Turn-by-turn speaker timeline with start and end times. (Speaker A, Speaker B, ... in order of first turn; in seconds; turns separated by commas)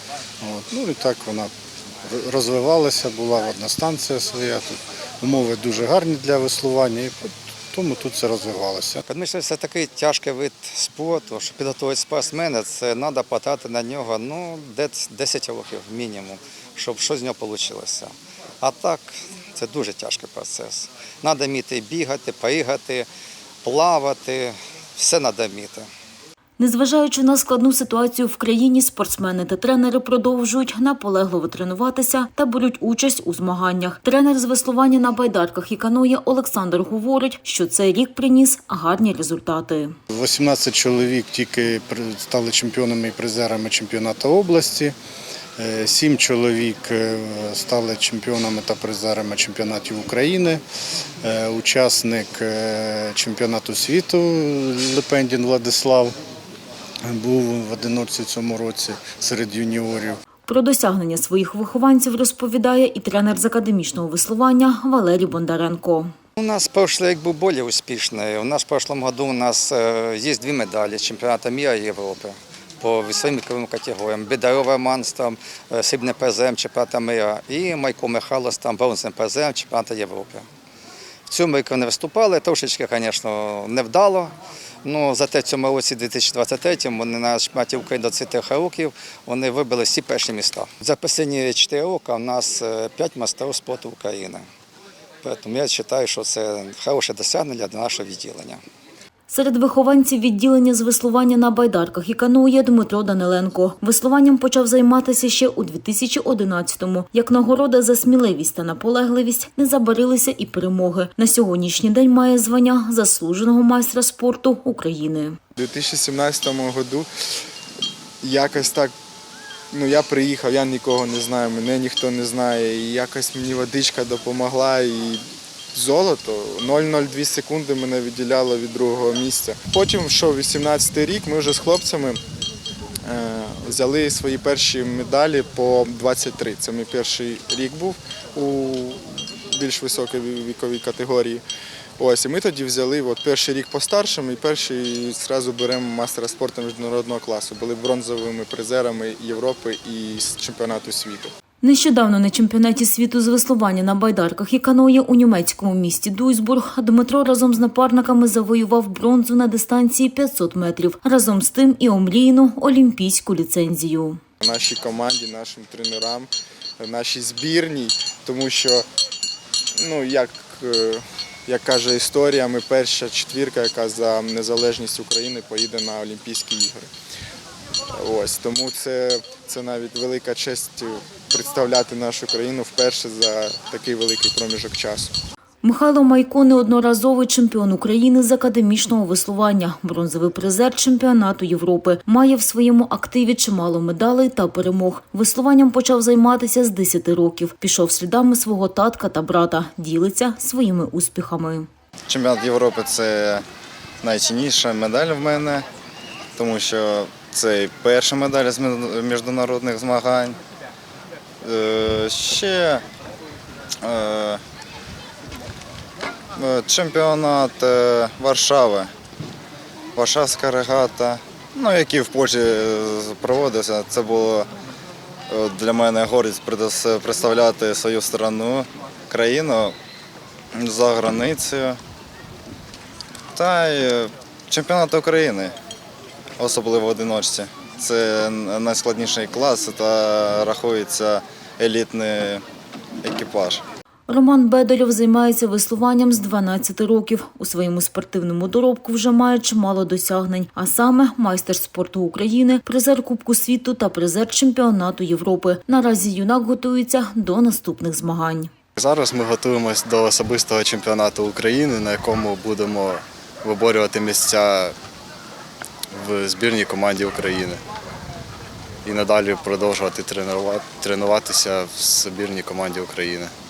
Speaker A: 0.4-1.5, Speaker A: 2.0-9.0, Speaker B: 9.1-23.1, Speaker B: 23.6-25.9, Speaker C: 26.6-40.0, Speaker A: 40.1-45.0, Speaker A: 45.6-50.6, Speaker A: 51.2-56.1, Speaker A: 57.0-60.2, Speaker C: 60.5-66.1, Speaker B: 66.4-80.5, Speaker B: 81.3-94.5, Speaker B: 95.2-98.6, Speaker C: 99.3-115.4, Speaker D: 115.6-117.1, Speaker D: 118.2-118.9, Speaker D: 119.7-125.2, Speaker D: 125.7-132.2, Speaker D: 133.1-141.4, Speaker D: 142.0-151.3, Speaker C: 151.6-164.2, Speaker D: 164.4-168.9, Speaker D: 169.8-176.9, Speaker D: 177.9-185.1, Speaker C: 185.6-201.7, Speaker E: 202.1-203.4, Speaker E: 204.0-205.7, Speaker E: 206.4-210.4, Speaker E: 211.4-212.8, Speaker E: 213.8-214.4, Speaker E: 216.4-218.9, Speaker E: 220.0-224.5, Speaker E: 225.3-229.8, Speaker E: 230.5-231.8, Speaker E: 233.3-235.5, Speaker E: 236.4-242.4, Speaker E: 243.0-243.6, Speaker C: 244.1-258.5, Speaker F: 258.8-264.7, Speaker F: 265.9-267.6, Speaker F: 268.9-273.3